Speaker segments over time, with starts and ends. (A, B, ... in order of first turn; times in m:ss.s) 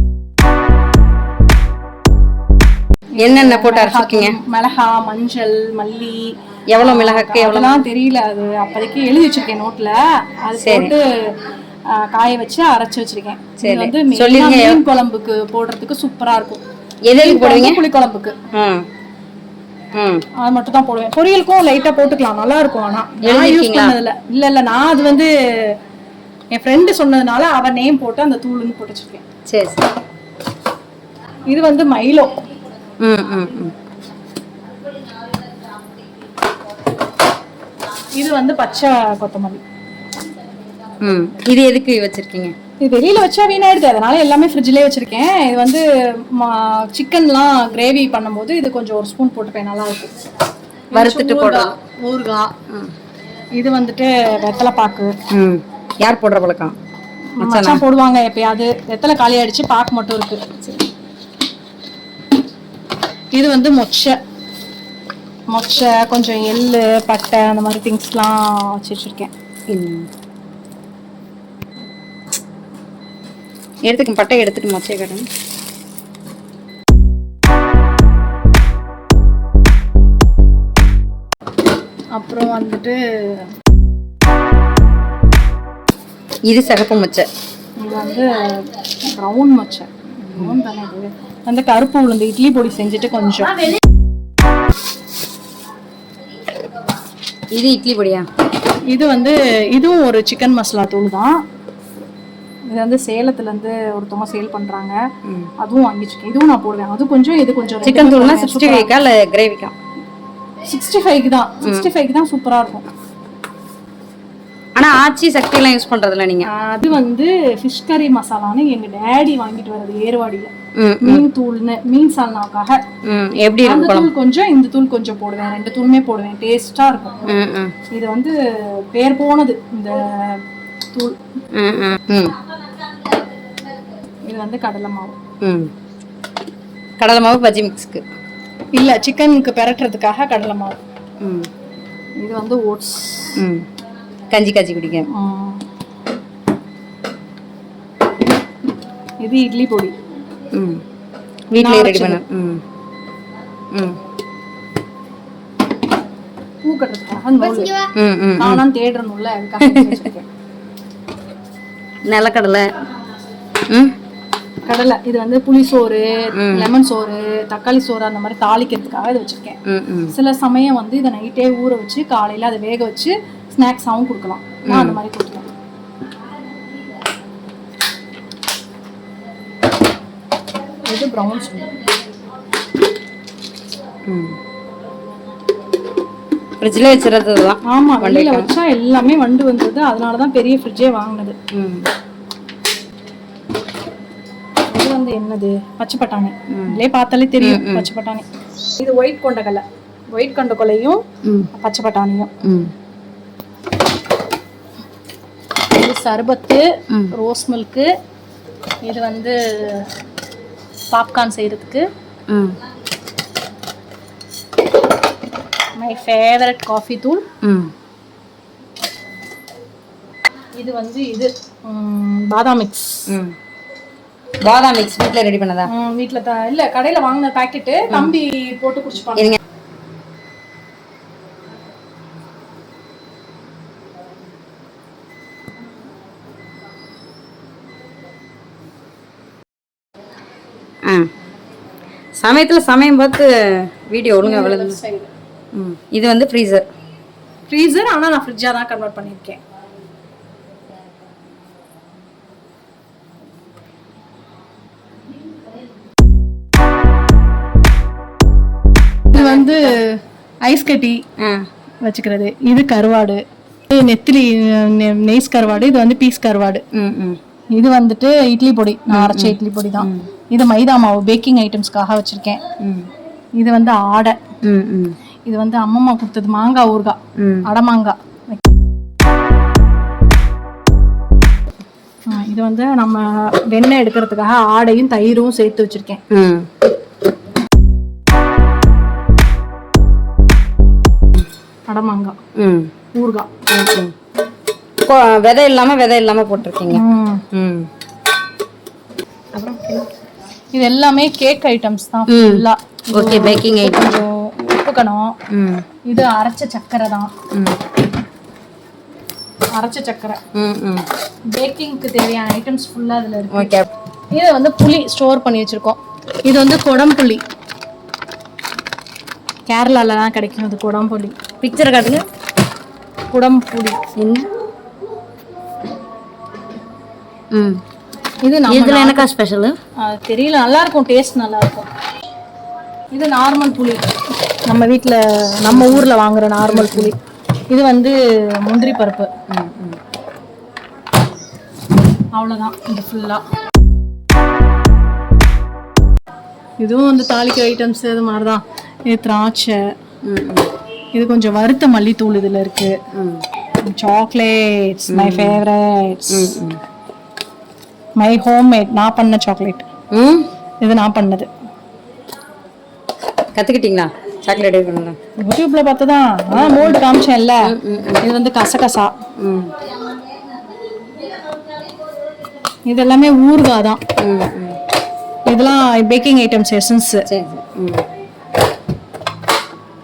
0:03.2-0:11.4 A
0:03.2-0:04.4 B
0:06.7-0:07.8 B
0:10.6-0:10.9 B
0:11.9-0:16.6 A
0:13.6-0:14.8 B
0:17.1-0:17.8 B
0:17.1-0:18.4 A
0:18.5-0:18.8 B
0:19.9-0:20.2 B
0:20.4-0:25.8 A
0:23.2-0:24.0 B
0:26.5-0:29.2 A
0:29.5-0:29.8 B
0:31.5-0:32.3 A
0:33.0-0:33.7 B
0:38.2-0:39.6 A
0:41.0-0:42.5 B
0:42.8-0:50.1 A
0:50.9-0:52.5 A
0:50.9-0:51.7 B
0:53.6-0:55.1 A
0:55.3-0:56.8 B
0:57.4-1:00.4 A
0:57.4-0:57.8 B
1:00.6-1:00.9 B
1:03.3-1:04.2 A
1:05.5-1:09.3 A
1:09.7-1:10.1 B
1:13.8-1:15.3 B
1:22.1-1:23.5 A
1:26.4-1:27.3 B
1:27.8-1:33.6 A
1:37.5-1:38.2 B
1:38.9-1:41.4 A
1:42.7-1:45.0 A
1:45.6-1:48.9 A
1:47.8-1:49.7 B
1:50.6-1:52.8 A
1:54.8-1:56.5 B
1:56.4-2:02.8 A
2:00.8-2:01.2 B
2:03.1-2:04.1 B
2:03.6-2:07.3 A
2:07.3-2:07.7 B
2:07.9-2:08.3 A
2:08.9-2:10.4 A
2:11.6-2:12.4 B
2:14.2-2:15.2 A
2:15.4-2:15.7 B
2:17.0-2:18.0 B
2:18.7-2:20.8 A
2:21.2-2:21.5 B
2:22.2-2:23.3 A
2:23.4-2:23.6 B
2:24.3-2:25.1 B
2:25.1-2:25.6 A
2:29.2-2:29.9 A
2:30.5-2:30.8 B
2:31.5-2:32.6 B
2:31.6-2:32.2 A
2:33.7-2:34.0 B
2:36.6-2:37.8 A
2:37.8-2:38.6 B
2:38.4-2:40.2 A
2:39.6-2:40.0 B
2:42.0-2:42.6 B
2:44.6-2:49.6 A
2:46.4-2:46.7 B
2:49.6-2:50.1 B
2:50.1-2:55.4 A
2:54.6-2:55.0 B
3:00.9-3:01.7 A
3:04.1-3:04.3 B
3:06.6-3:08.5 B
3:07.6-3:11.4 A
3:11.5-3:11.9 B
3:14.7-3:18.2 A
3:17.4-3:17.9 B
3:18.8-3:21.0 A
3:21.2-3:21.5 B
3:21.5-3:22.3 A
3:22.4-3:22.7 B
3:25.7-3:27.9 A
3:28.8-3:29.9 A
3:30.9-3:31.9 A
3:32.3-3:32.6 B
3:35.8-3:37.2 A
3:37.4-3:37.7 B
3:40.6-3:43.1 A
3:43.1-3:43.3 B
3:44.4-3:45.7 B
3:45.7-3:49.4 A
4:02.2-4:04.8 B
4:04.2-4:05.1 A
4:05.5-4:06.7 B
4:07.5-4:09.4 A
4:19.1-4:21.0 A
4:21.2-4:21.4 B
4:21.8-4:26.6 A
4:26.7-4:27.2 B
4:27.5-4:32.4 A
4:28.9-4:30.1 B
4:32.6-4:32.9 B
4:33.4-4:34.1 A
4:34.4-4:34.9 B
4:35.2-4:38.4 A
4:37.2-4:37.4 B
4:42.1-4:46.0 A
4:46.1-4:46.5 B
4:51.7-4:52.2 A
4:52.4-4:52.7 B
4:52.9-4:53.3 A
4:53.5-4:53.9 B
4:54.8-4:57.7 B
4:56.7-4:57.2 A
4:59.3-4:59.9 B
5:00.5-5:05.2 A
5:02.1-5:04.0 B
5:05.3-5:05.6 B
5:05.9-5:07.1 A
5:09.5-5:10.2 A
5:10.3-5:10.8 B
5:11.3-5:13.5 A
5:13.3-5:13.7 B
5:14.1-5:17.2 A
5:19.5-5:21.2 A
5:21.4-5:22.0 B
5:23.1-5:23.8 A
5:24.0-5:24.3 B
5:27.3-5:27.6 B
5:28.2-5:29.1 A
5:28.5-5:29.6 B
5:29.8-5:31.7 A
5:32.9-5:33.8 A
5:34.5-5:37.0 A
5:35.5-5:35.9 B
5:36.5-5:36.9 B
5:37.5-5:39.1 A
5:39.3-5:39.8 B
5:42.1-5:43.2 A
5:46.6-5:49.7 A
5:50.0-5:50.5 B
5:50.9-5:52.8 A
5:52.9-5:53.2 B
5:53.6-5:56.3 A
5:54.9-5:55.4 B
5:56.1-5:56.6 B
5:58.0-5:59.7 A
5:59.9-6:00.3 B
6:00.6-6:01.3 A
6:03.3-6:05.0 B
6:05.2-6:08.9 A
6:06.3-6:06.8 B
6:07.4-6:08.0 B
6:09.2-6:09.5 B
6:12.7-6:13.8 A
6:14.0-6:14.6 B
6:15.2-6:17.0 A
6:17.1-6:17.8 B